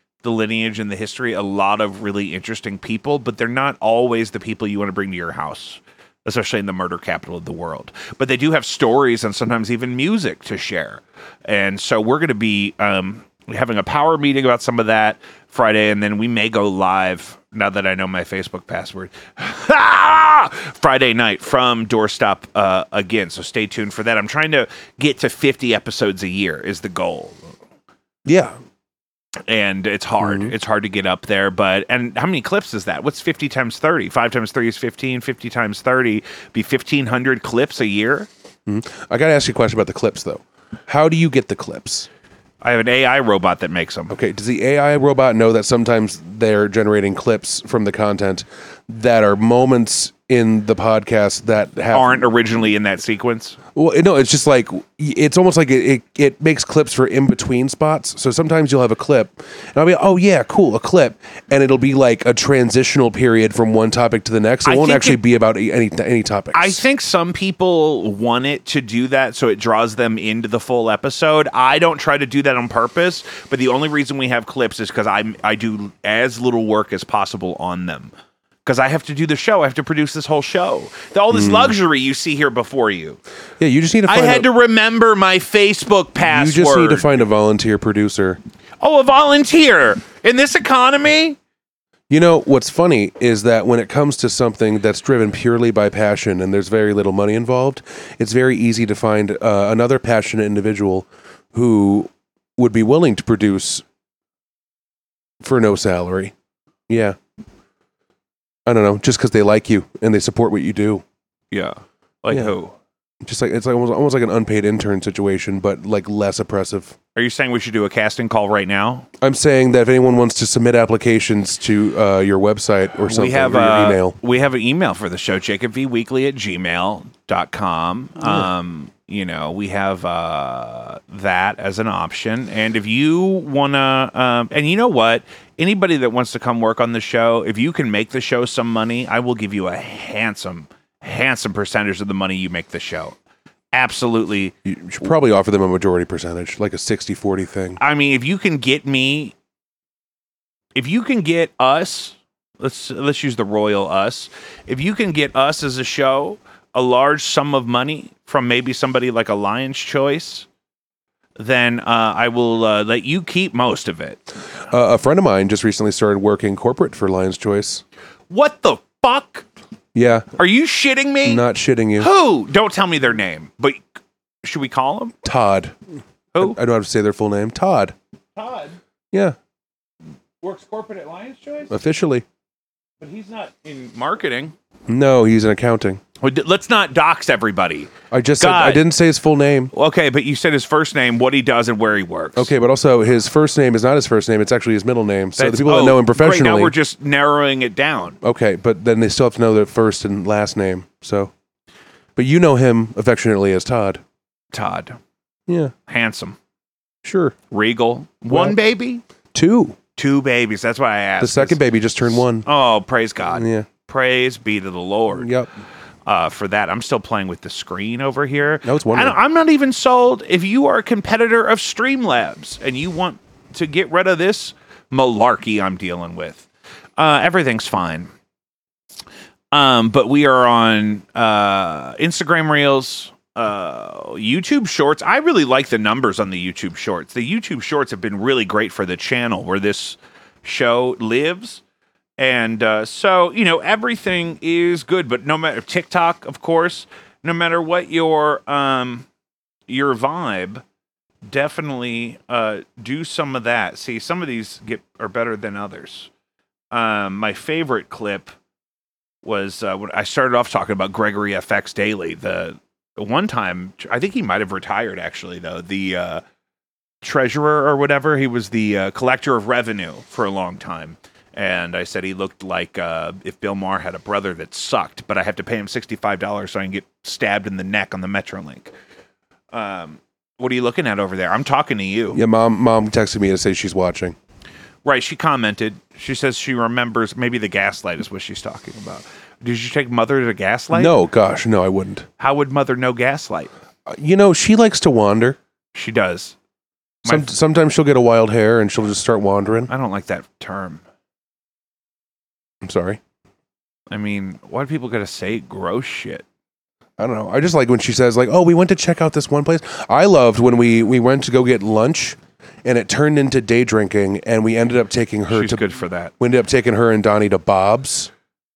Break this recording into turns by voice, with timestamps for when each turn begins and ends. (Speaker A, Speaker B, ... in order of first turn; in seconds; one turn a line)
Speaker A: 0.2-27.5
Speaker B: 28.2-28.5
Speaker A: 29.5-38.3
Speaker B: 30.2-30.5
Speaker B: 38.6-42.1
Speaker A: 42.6-44.1
Speaker B: 44.1-52.2
Speaker A: 51.9-53.6
Speaker B: 53.7-66.8
Speaker A: 64.6-65.2
Speaker A: 66.5-78.1
Speaker A: 78.6-83.2
Speaker B: 81.3-81.7
Speaker B: 83.6-84.5
Speaker A: 84.1-87.2
Speaker B: 86.2-88.4
Speaker A: 88.8-91.4
Speaker B: 92.1-103.8
Speaker B: 105.4-106.3
Speaker B: 106.9-107.2
Speaker B: 108.7-111.0
Speaker A: 111.5-112.8
Speaker B: 113.2-117.0
Speaker A: 117.1-119.1
Speaker B: 119.2-124.2
Speaker A: 123.0-143.2
Speaker B: 128.2-128.5
Speaker A: 143.7-144.5
Speaker B: 144.6-147.8
Speaker A: 147.8-149.3
Speaker A: 150.7-160.5
Speaker A: 161.4-164.2
Speaker B: 164.7-167.8
Speaker A: 168.3-169.4
Speaker B: 169.9-170.3
Speaker A: 170.4-171.4
Speaker B: 171.2-172.1
Speaker A: 172.0-173.8
Speaker A: 174.4-175.1
Speaker B: 175.2-175.8
Speaker B: 176.4-177.9
Speaker A: 178.3-178.8
Speaker A: 180.4-181.7
Speaker B: 181.7-182.2
Speaker A: 183.0-184.5
Speaker B: 184.9-186.0
Speaker A: 186.2-188.8
Speaker B: 188.1-189.7
Speaker A: 189.7-192.5
Speaker B: 192.3-196.7
Speaker A: 195.4-198.2
Speaker B: 198.2-201.3
Speaker B: 202.2-204.0
Speaker A: 204.5-205.0
Speaker B: 205.5-205.7
Speaker A: 205.9-206.4
Speaker B: 207.0-207.3
Speaker A: 207.5-209.0
Speaker B: 208.3-208.6
Speaker B: 209.3-209.8
Speaker A: 210.0-215.3
Speaker B: 211.2-212.4
Speaker B: 213.3-213.7
Speaker B: 215.1-215.5
Speaker A: 216.1-228.1
Speaker B: 218.6-219.2
Speaker A: 229.5-241.6
Speaker A: 242.2-249.1
Speaker A: 249.7-250.6
Speaker A: 251.2-256.1
Speaker A: 256.7-258.3
Speaker A: 259.2-266.2
Speaker A: 267.0-278.7
Speaker A: 279.5-282.2
Speaker B: 282.1-284.1
Speaker A: 284.8-290.9
Speaker B: 290.7-292.1
Speaker A: 292.2-293.5
Speaker B: 293.9-295.4
Speaker A: 295.7-296.4
Speaker A: 297.0-297.3
Speaker B: 297.0-299.7
Speaker A: 299.7-300.8
Speaker B: 302.6-303.0
Speaker A: 303.9-306.2
Speaker B: 307.0-315.6
Speaker A: 315.3-316.1
Speaker B: 316.2-318.1